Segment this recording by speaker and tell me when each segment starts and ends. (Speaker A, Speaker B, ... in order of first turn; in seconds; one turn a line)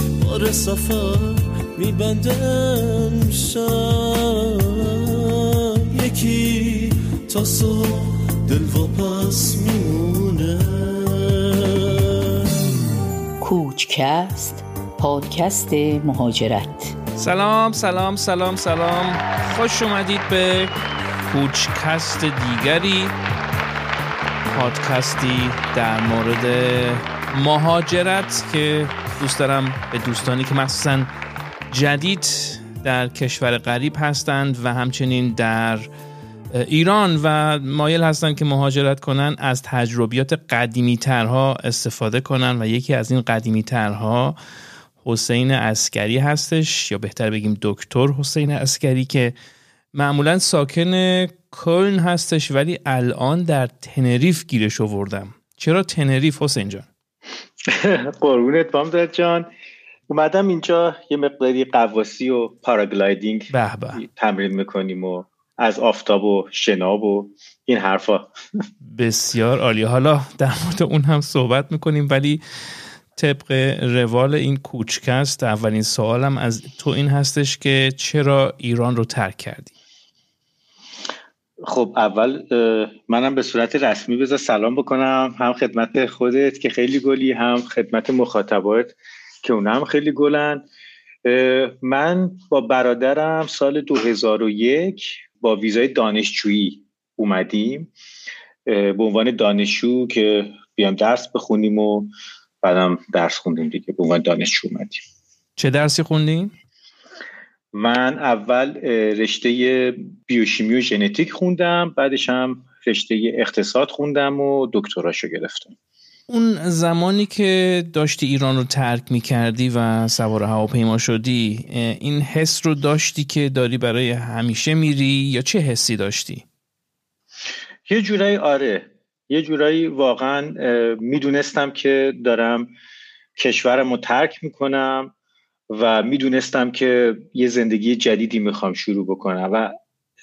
Speaker A: 0.2-12.7
Speaker B: 13.4-16.9
Speaker C: 17.1-20.7
Speaker C: 21.3-23.1
Speaker C: 24.5-31.1
Speaker C: 31.7-35.9
Speaker C: 36.5-44.4
Speaker C: 45.0-49.3
Speaker C: 49.9-56.9
Speaker D: 57.6-59.5
Speaker D: 60.1-68.3
Speaker C: 63.5-64.0
Speaker C: 68.8-72.4
Speaker C: 73.1-79.7
Speaker D: 81.6-90.6
Speaker D: 91.2-97.9
Speaker D: 98.7-102.1
Speaker D: 102.6-105.0
Speaker C: 105.6-106.5
Speaker D: 107.7-115.7
Speaker C: 116.3-126.4
Speaker D: 127.9-132.7
Speaker D: 133.3-135.1
Speaker D: 135.7-139.7